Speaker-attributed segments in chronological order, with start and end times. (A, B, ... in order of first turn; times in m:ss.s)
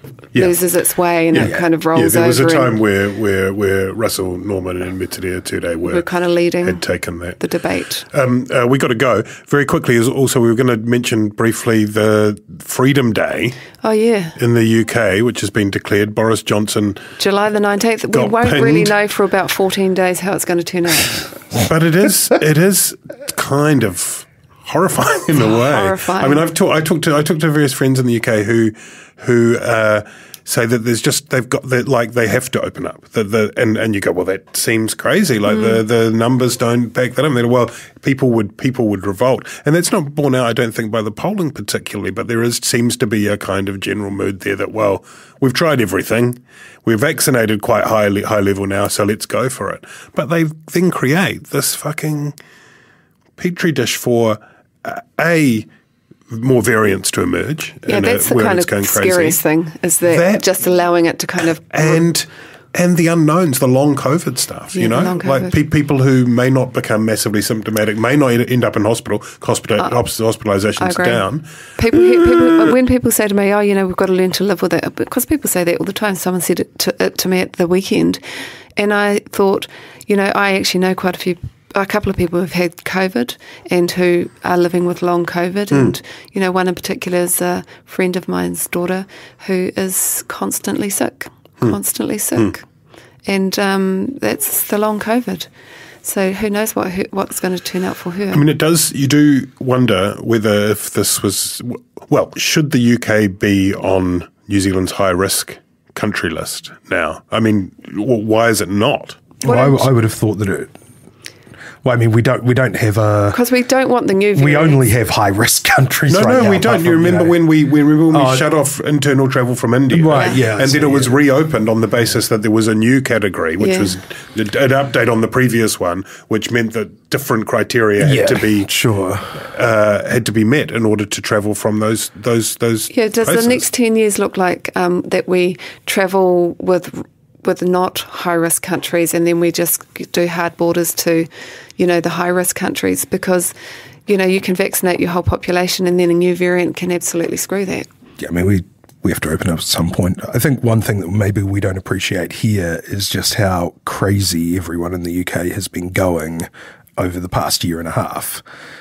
0:00.3-0:00.6 A
0:00.3-0:02.8 B
0:01.3-0:06.0 A
0:05.8-0:08.0 B
0:06.6-0:07.4 A
0:08.1-0:13.6 A
0:13.8-0:14.4 B
0:14.4-0:17.0 A
0:17.2-0:21.3 B
0:18.1-0:18.9 A
0:21.5-0:52.3 A
0:25.4-0:26.4 B
0:35.5-0:35.8 B
0:53.4-0:55.7 A
0:56.3-0:59.4 A
0:57.9-1:02.0 B
1:00.0-1:00.5 A
1:01.7-1:12.6 A
1:04.7-1:05.6 B
1:10.8-1:18.2 B
1:18.8-1:32.6 B
1:33.2-1:35.5 B
1:36.0-1:38.4 B
1:38.3-1:49.2 A
1:49.4-1:49.9 B
1:49.4-1:50.7 C
1:51.8-1:53.4 C
1:53.3-1:54.9 B
1:54.3-1:57.4 C
1:56.1-2:08.7 A
1:58.1-1:58.5 C
1:59.9-2:01.2 C
2:00.1-2:00.4 B
2:03.6-2:03.9 B
2:08.0-2:09.4 C
2:09.4-2:13.6 A
2:12.9-2:23.5 B
2:24.1-2:27.9 B
2:28.2-2:38.4 C